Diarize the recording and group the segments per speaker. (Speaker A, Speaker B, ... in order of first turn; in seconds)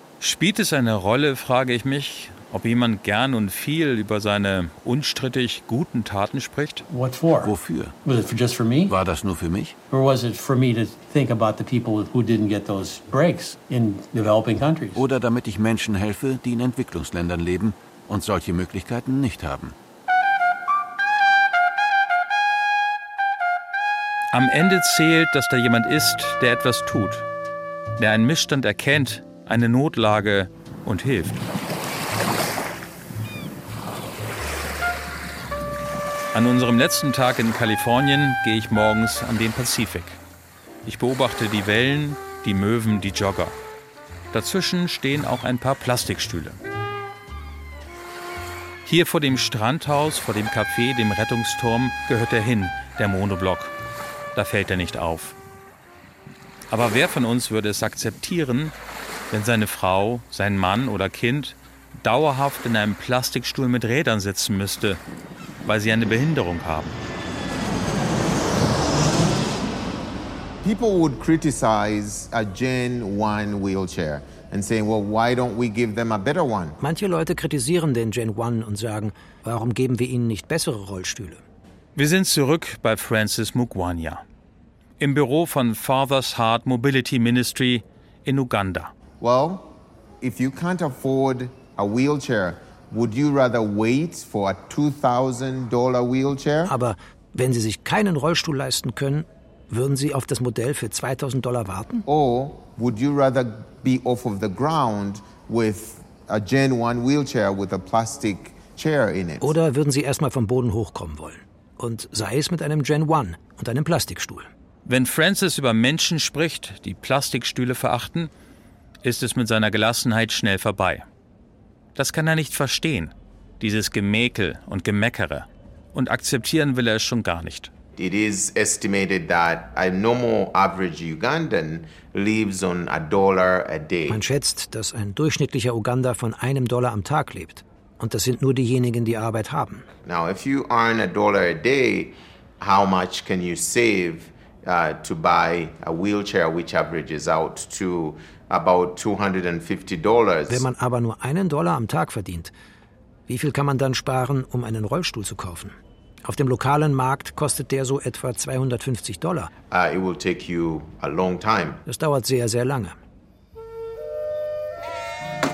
Speaker A: 0.2-6.8, 24.3-27.3, 28.0-31.4, 36.3-40.2, 40.8-43.5, 44.3-46.6, 48.8-53.7, 54.3-55.4, 56.7-58.7, 59.3-65.0, 65.6-66.9, 82.0-84.2, 85.0-88.9, 114.8-118.3, 119.0-121.0, 121.9-127.7
Speaker B: 6.9-9.0, 9.9-15.0
Speaker C: 7.4-8.0, 8.9-9.7, 14.9-19.7
Speaker D: 70.6-76.8, 89.2-96.7, 102.1-109.5, 128.0-134.2, 140.0-150.6, 159.7-161.8
Speaker E: 76.8-81.4, 96.7-102.0, 109.4-114.5, 134.1-139.8, 150.5-152.5, 153.3-159.5, 161.8-162.9